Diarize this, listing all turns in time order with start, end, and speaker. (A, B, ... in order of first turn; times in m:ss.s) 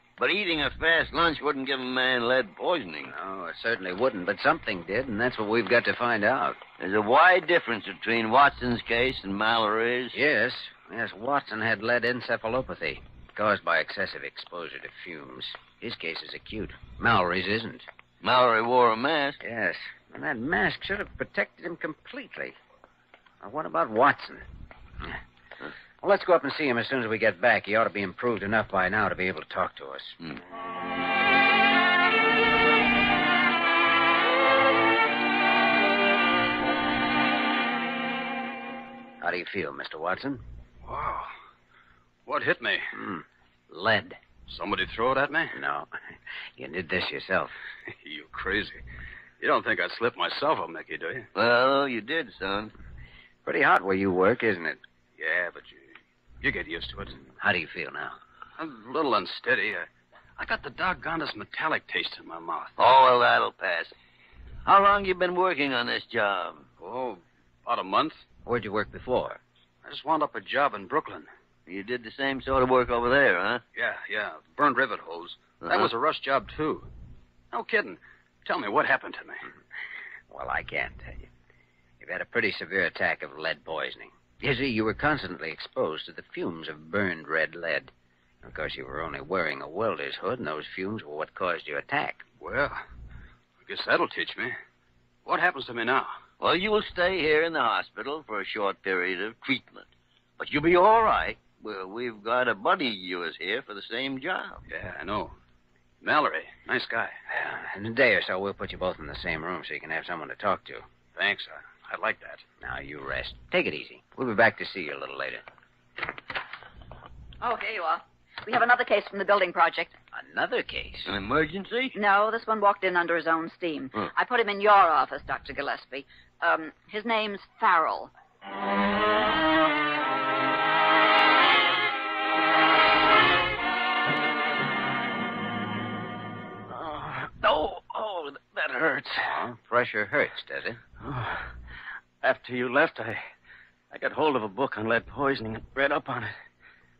0:00.2-0:03.1 A
0:03.0-0:06.6 B
0:06.8-0:10.2 A
0:10.1-0:17.8 B
0:18.2-0:19.4 A
0:19.4-0:22.6 B
0:23.4-0:24.4 B
0:26.0-0:30.2 B
0:39.2-0:40.4 B
0:40.8-0:41.3 C
0:42.2-0:42.9 C
0:42.9-0:44.2 B
0:44.5-0:45.6 C
0:45.5-0:45.9 B
0:46.6-0:47.5 B
0:47.9-0:48.8 C
0:49.4-0:51.3 C
0:51.3-0:52.7 A
0:53.4-0:54.8 B
0:55.2-0:57.2 C
0:57.3-0:58.2 B
0:58.6-0:59.9 C
1:00.4-1:02.7 C
1:02.8-1:03.9 A
1:04.6-1:06.7 A
1:06.8-1:08.2 C
1:08.4-1:09.4 B
1:09.8-1:11.3 C
1:11.7-1:13.6 A
1:13.7-1:16.9 C
1:15.6-1:15.9 A
1:17.5-1:19.4 C
1:20.3-1:21.3 B
1:22.0-1:32.2 B
1:32.4-1:32.8 C
1:33.6-1:34.6 C
1:35.2-1:36.1 C
1:36.4-1:39.9 A
1:40.4-1:44.6 A
1:44.7-1:45.3 C
1:46.0-1:47.2 C
1:47.3-1:50.9 B
1:51.1-1:52.4 C
1:52.6-1:55.4 B
1:57.4-2:00.0 D
2:00.1-2:01.1 B
2:01.1-2:01.9 A
2:01.9-2:08.1 D
2:16.7-2:19.3 E
2:19.2-2:20.8 B
2:21.0-2:21.5 E
2:22.2-2:23.2 E
2:23.9-2:26.3 E